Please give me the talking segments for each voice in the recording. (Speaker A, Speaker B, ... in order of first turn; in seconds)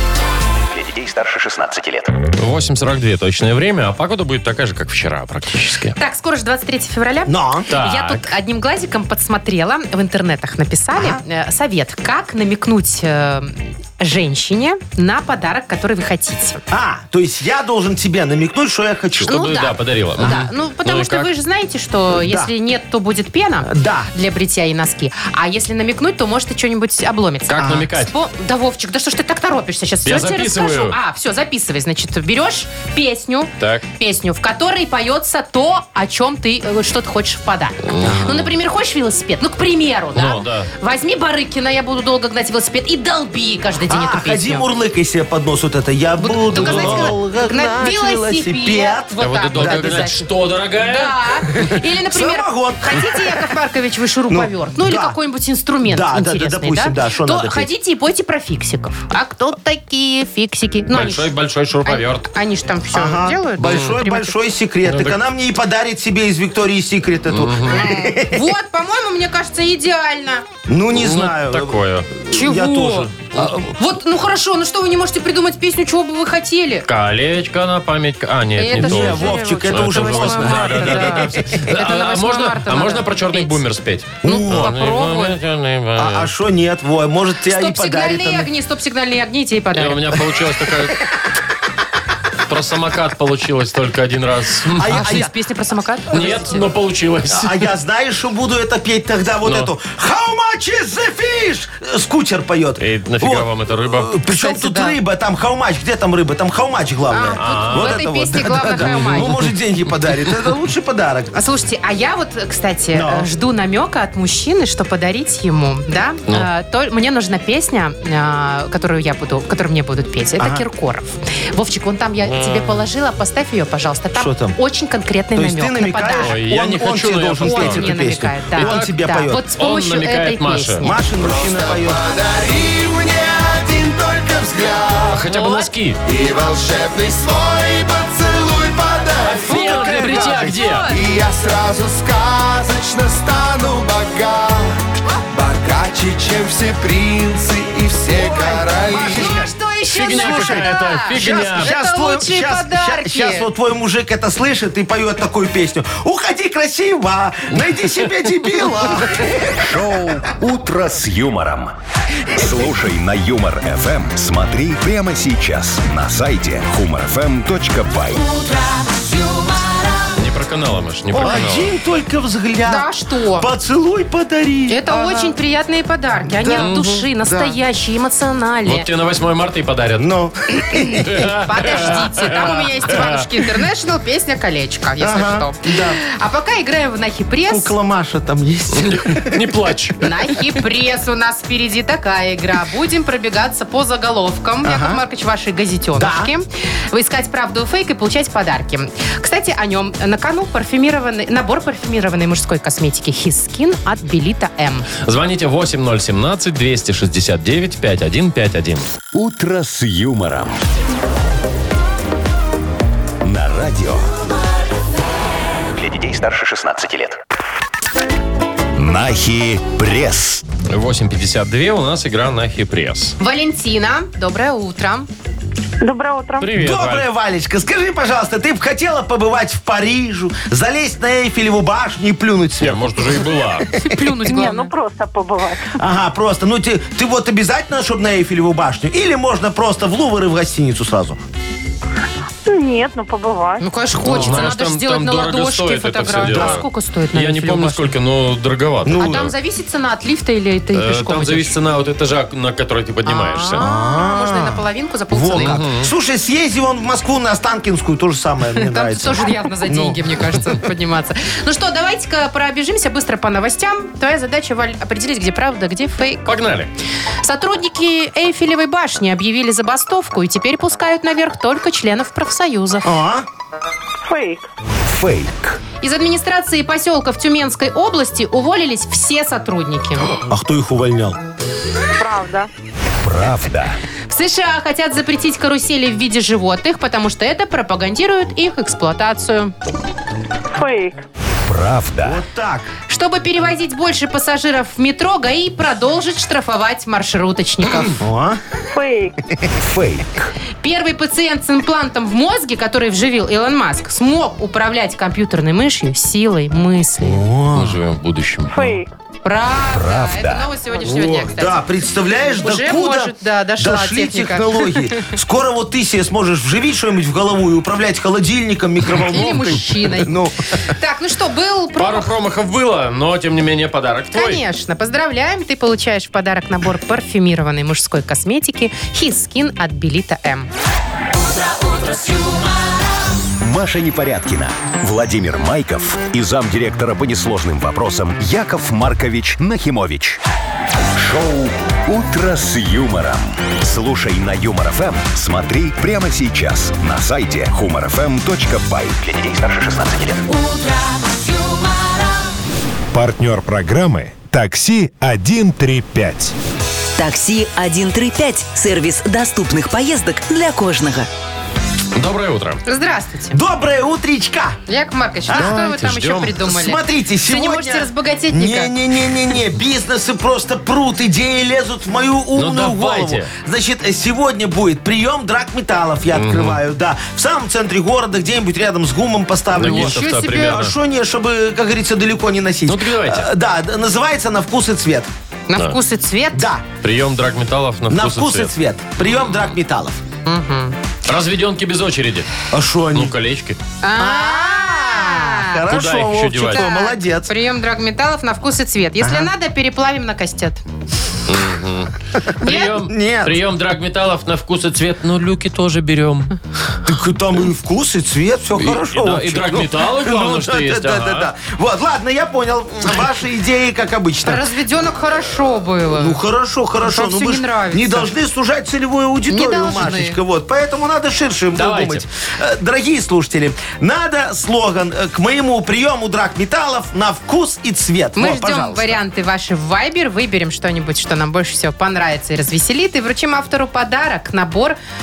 Speaker A: 0.7-2.1, 215.7-217.2, 349.0-350.3
Speaker B: 2.3-6.0, 7.7-8.2, 19.2-21.3, 27.5-28.1, 30.0-31.0, 37.9-38.5, 40.1-40.7, 46.5-47.2, 49.2-51.1, 60.9-62.3, 63.6-64.0, 64.8-65.2, 67.3-67.8, 70.9-72.1, 76.8-86.3, 89.7-91.0, 92.5-95.0, 96.1-97.7, 99.4-99.7, 102.8-104.1, 107.4-108.0, 108.7-109.5, 126.2-128.0, 128.5-128.9, 129.6-130.9, 135.1-136.0, 139.2-140.9, 149.9-151.7, 170.2-171.7, 176.6-177.0, 178.7-180.1, 181.0-183.2, 188.7-190.0, 205.0-208.8, 220.7-223.2, 226.4-227.1, 232.6-233.7, 244.0-249.3, 250.7-253.6, 255.3-255.9, 266.2-266.7, 307.5-308.8, 321.8-324.4, 361.9-362.6, 365.4-366.4, 372.3-373.3, 376.1-376.6, 379.5-380.8, 382.7-383.3, 386.8-388.5, 389.1-389.4, 391.1-392.3, 392.9-393.6, 395.7-396.7, 401.3-406.3, 408.6-411.3, 421.5-422.0
Speaker C: 6.0-16.6, 19.2-44.7, 46.2-61.3, 61.8-64.3, 67.7-70.4, 72.3-73.1, 73.7-76.8, 78.6-83.6, 84.2-85.4, 87.4-90.1, 94.9-96.6, 104.3-105.0, 107.1-109.4, 111.3-126.4, 127.4-131.0, 135.3-135.7, 139.5-141.0, 148.2-153.5, 172.7-173.5, 174.7-178.9, 181.3-187.7, 190.0-204.9, 223.2-225.1, 233.8-234.7, 243.6-247.8, 248.9-251.6, 253.1-255.6, 258.6-266.3, 267.2-272.9, 275.8-280.1, 284.1-289.5, 292.9-298.0, 300.6-307.2, 309.2-311.6, 312.3-314.7, 319.0-320.1, 320.7-322.1, 324.1-330.5, 362.6-363.4, 364.7-368.7, 379.6-380.6, 385.5-386.5, 390.2-390.7, 393.8-395.6, 396.4-400.6, 414.2-416.2, 416.8-418.1, 419.3-420.2, 428.1-434.8
Speaker D: 7.3-7.7, 10.9-11.2, 16.7-19.3, 22.2-22.5, 23.7-24.1, 27.6-27.9, 38.0-38.4, 43.9-50.2, 51.6-53.2, 54.3-55.1, 55.8-57.7, 62.9-68.4, 70.7-73.7, 78.7-81.6, 84.2-84.8, 86.0-88.5, 94.8-95.3, 96.1-96.6, 97.3-111.3, 112.9-113.3, 120.4-120.6, 124.1-124.6, 125.3-129.4, 130.8-132.0, 139.4-140.6, 148.3-149.5, 150.1-159.5, 171.1-175.3, 176.3-177.5, 180.0-181.3, 185.0-186.0, 187.5-189.4, 194.6-195.0, 195.9-196.3, 226.6-233.2, 235.8-241.2, 244.0-244.5, 246.2-246.6, 248.8-249.3, 253.6-260.0, 272.8-273.2, 280.3-281.2, 292.0-292.7, 298.0-298.4, 307.0-307.8, 310.8-320.4, 363.3-364.6, 365.3-365.7, 366.4-385.1, 386.3-386.6, 387.9-390.0, 392.5-393.1, 393.9-397.3, 399.0-399.3, 402.4-403.4, 406.8-414.4, 415.9-429.0
Speaker E: 131.2-135.3, 136.0-139.5, 140.9-149.3
Speaker F: 159.5-161.8, 162.3-168.2, 209.1-210.6, 213.2-214.1, 218.8-220.4, 274.8-275.6, 283.0-283.8, 291.4-292.2, 299.6-300.3, 309.7-310.5, 333.4-340.2, 340.9-349.0
Speaker G: 225.8-226.5, 234.2-235.7, 242.4-243.6, 274.0-274.4, 282.0-282.5, 290.5-291.0, 298.7-299.1, 308.5-308.9
Speaker H: 331.5-332.5, 350.3-352.2, 356.9-361.1
Speaker I: 352.9-356.3